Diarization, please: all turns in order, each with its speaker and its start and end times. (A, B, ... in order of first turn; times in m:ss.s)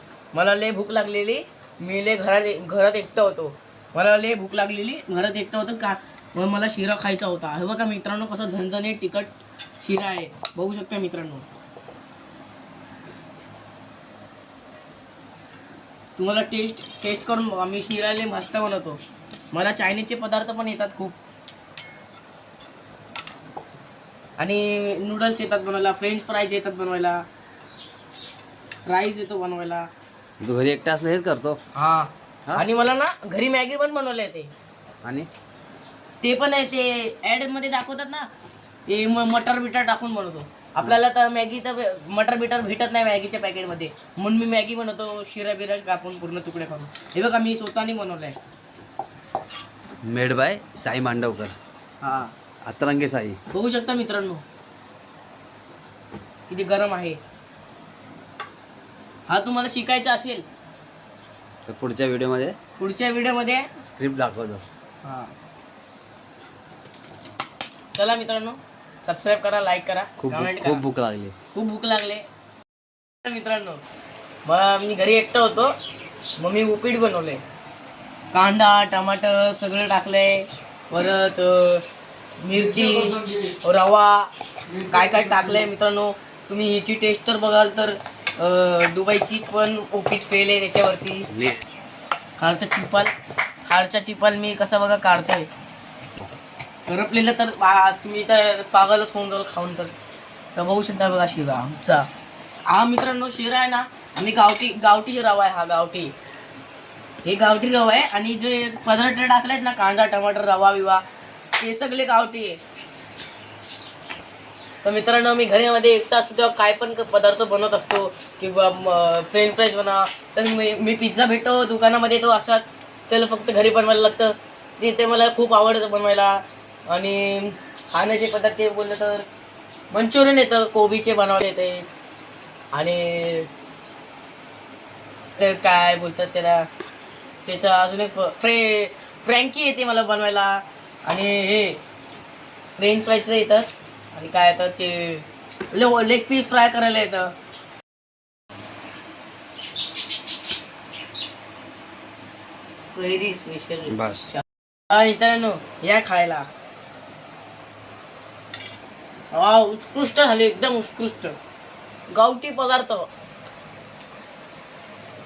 0:00.3-0:11.4 A
0:16.2-0:19.0 A
0:19.5-0:21.2 A
0:24.4-0:27.2 A
0:28.9-0:29.9 A
0:30.4-0:31.6 B
0:31.7-0:34.5 A
0:35.0-0:35.3 B
0:36.2-0:38.3 A
0:38.9-0:48.4 A
0:50.0-0:51.5 B
0:52.0-0:52.3 A
0:52.6-0:53.4 B
0:53.5-0:54.4 A
0:56.5-0:57.2 A
0:59.3-1:00.4 A
1:01.6-1:02.6 B
1:02.8-1:03.7 A
1:03.8-1:04.6 B
1:05.0-1:05.3 A
1:07.9-1:10.8 A
1:10.2-1:11.3 B
1:11.5-1:12.2 A
1:13.2-1:13.8 A
1:14.4-1:15.7 A
1:16.4-1:17.4 A
1:18.3-1:21.8 A
1:22.4-1:31.3 A
1:31.3-1:31.6 B
1:32.4-1:33.1 A
1:33.7-1:35.5 A
1:36.9-1:39.9 A
1:40.6-1:42.1 A
1:42.7-1:46.1 A
1:47.2-1:51.0 A
1:51.6-1:52.6 A
1:54.8-2:09.2 A
2:09.9-2:11.9 A
2:12.7-2:13.5 A
2:15.4-2:16.7 A
2:17.4-2:21.8 A
2:22.8-2:27.3 A
2:32.9-2:36.4 A
2:33.9-2:34.3 B
2:39.3-2:41.4 A
2:42.1-2:43.1 A